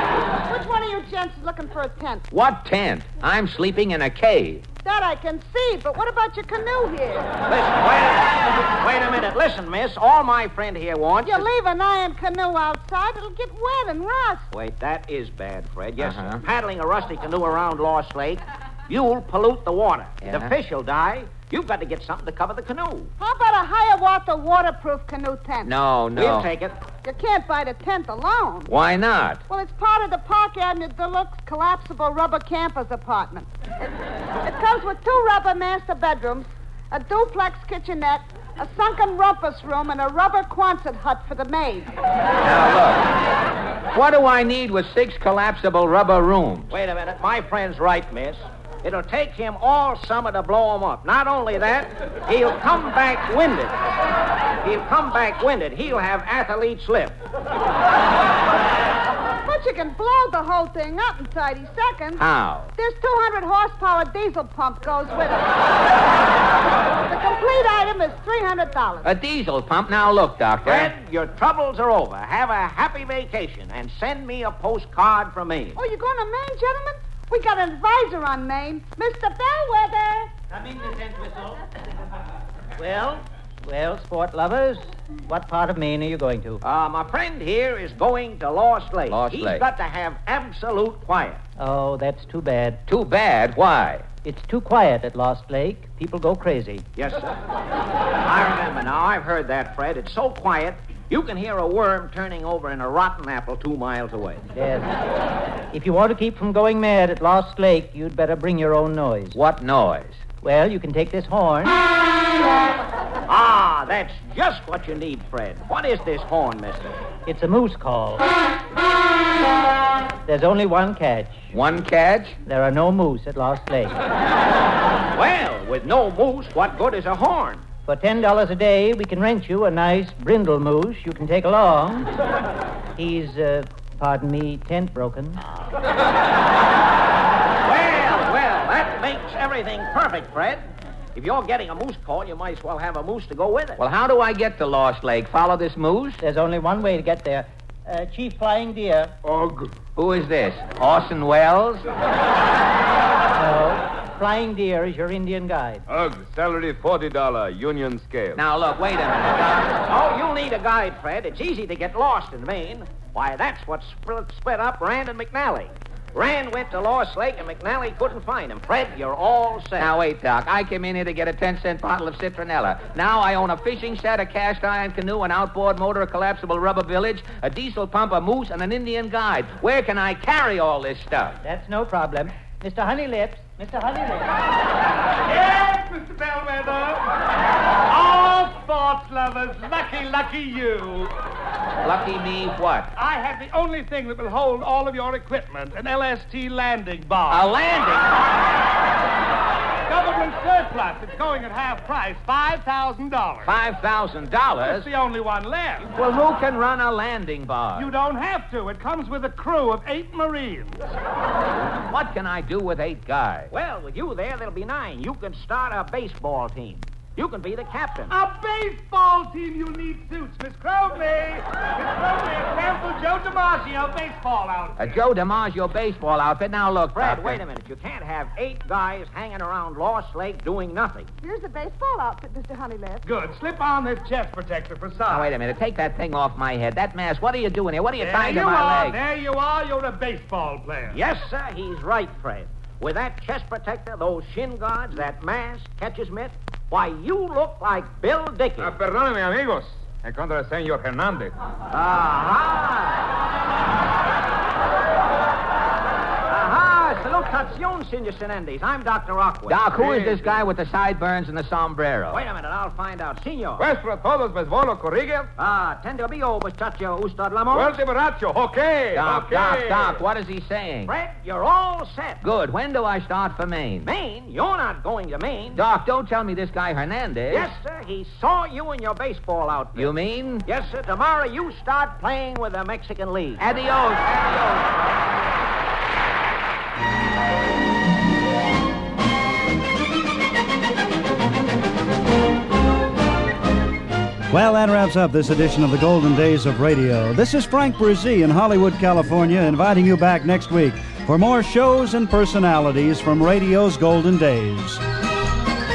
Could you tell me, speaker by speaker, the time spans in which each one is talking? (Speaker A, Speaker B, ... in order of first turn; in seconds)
Speaker A: 0.5-2.2, 4.8-7.4, 11.2-14.5, 23.2-25.7, 27.0-28.7, 29.5-33.9, 34.4-41.9, 59.5-62.2, 62.8-65.9, 67.0-69.1, 75.8-80.3, 231.2-233.0
Speaker B: 2.3-4.6, 16.0-16.4, 20.2-20.5, 25.6-26.5, 28.7-29.4, 42.4-43.1, 43.9-46.7, 62.1-62.7, 69.0-70.9, 89.1-89.6, 92.9-94.0, 109.3-110.2, 121.5-122.4, 143.8-146.2, 150.0-151.9, 158.4-159.8, 169.8-181.4, 191.8-192.9, 197.3-198.2, 203.4-204.9, 205.9-207.9, 211.8-213.5, 224.8-227.4, 235.1-239.0, 259.5-262.2, 268.9-270.9, 272.2-273.9, 275.6-277.5, 279.8-280.5, 283.4-284.7
Speaker C: 7.5-11.5, 14.5-23.1, 26.1-26.8, 46.7-53.9, 54.6-57.2, 70.6-75.8, 86.6-91.4, 97.0-97.4, 98.2-104.4, 113.3-117.0, 125.1-127.6, 137.6-140.6, 141.1-143.8, 159.8-169.9, 213.5-218.1, 226.9-231.1, 240.9-248.8, 251.7-253.1, 256.3-260.1, 262.1-263.6, 265.4-267.8, 270.9-272.2, 273.9-275.6, 277.3-283.5
Speaker D: 80.5-81.7, 82.8-86.6, 91.6-92.8, 94.2-96.9, 104.5-104.9, 105.7-109.4, 110.4-111.8, 117.2-118.3, 120.2-121.5, 122.5-124.0, 127.9-132.1, 132.9-135.4, 146.2-149.1, 153.3-155.8, 181.4-184.3
Speaker E: 149.2-149.7, 155.9-158.4, 248.6-251.3, 259.8-260.3, 263.6-265.3, 267.5-270.0
Speaker F: 185.2-187.1, 187.9-191.1, 193.0-197.5, 199.9-203.5, 204.6-205.9, 207.8-210.8, 218.1-224.9, 233.1-235.3, 238.0-241.0
Speaker G: 294.3-304.8